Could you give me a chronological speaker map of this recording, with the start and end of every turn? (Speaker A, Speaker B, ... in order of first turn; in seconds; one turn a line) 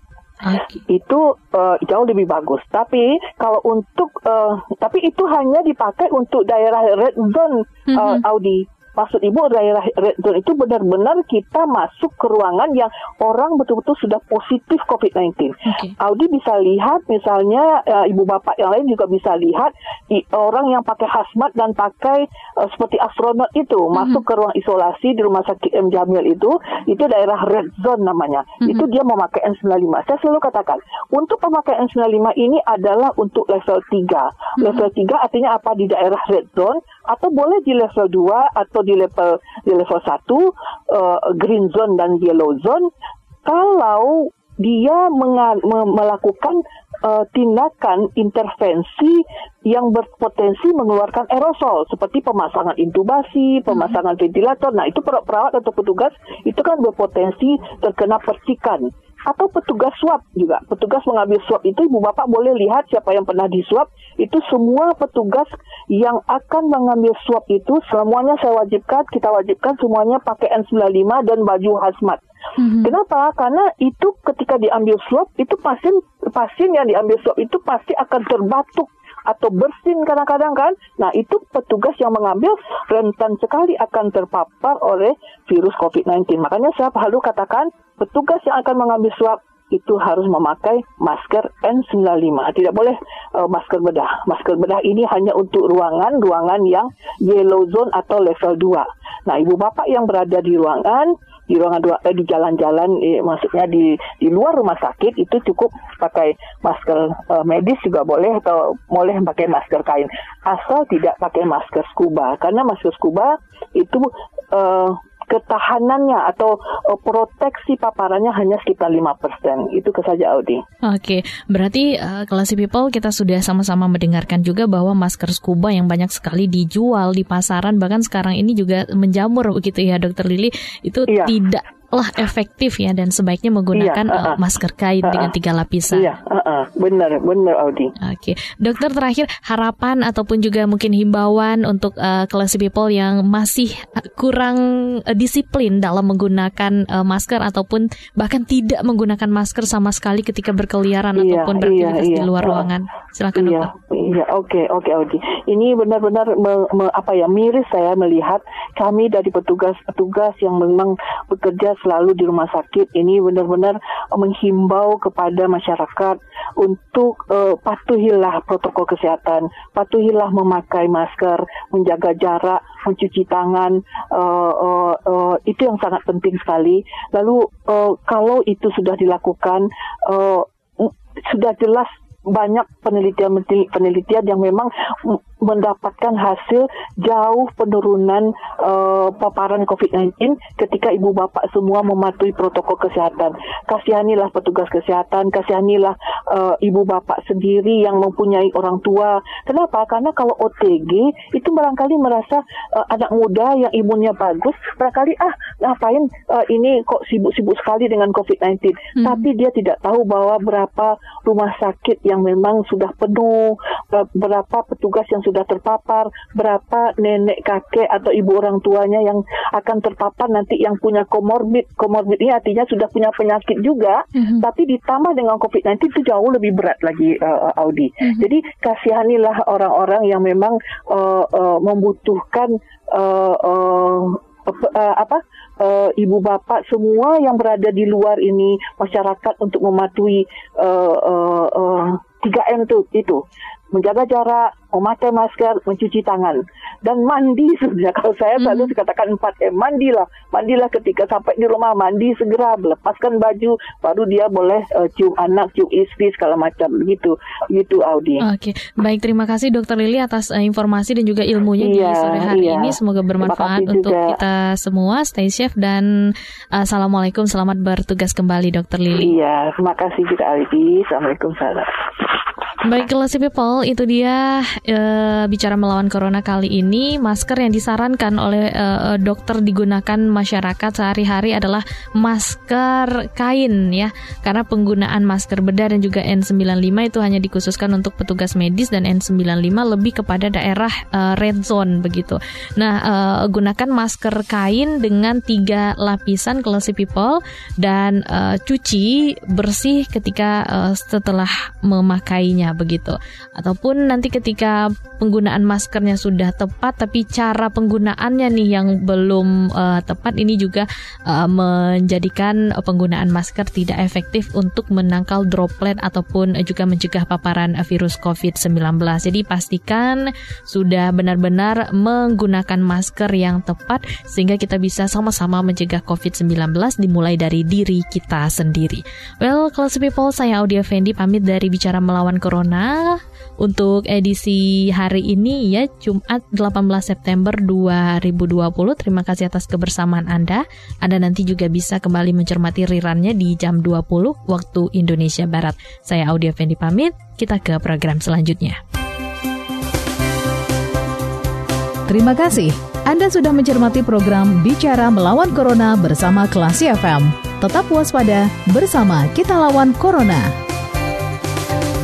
Speaker A: 0.4-0.8
Speaker B: 0.9-42.9
Speaker A: 7.9-8.2
Speaker A: 15.7-15.9
Speaker A: 23.9-24.2
Speaker B: 43.5-72.2
Speaker A: 53.7-54.0
Speaker A: 72.6-72.9
Speaker B: 72.8-120.6
Speaker A: 120.8-136.1
Speaker B: 131.1-131.3
Speaker B: 133.7-134.4
Speaker B: 135.0-135.3
Speaker B: 135.9-137.9
Speaker A: 138.0-153.7
Speaker B: 151.2-152.7
Speaker B: 153.3-258.2
Speaker A: 224.2-224.4
Speaker A: 248.4-248.7
Speaker A: 258.2-265.9
Speaker B: 261.6-264.2
Speaker A: 266.5-269.1
Speaker B: 269.0-271.8
Speaker A: 272.6-348.6
Speaker C: 351.9-360.4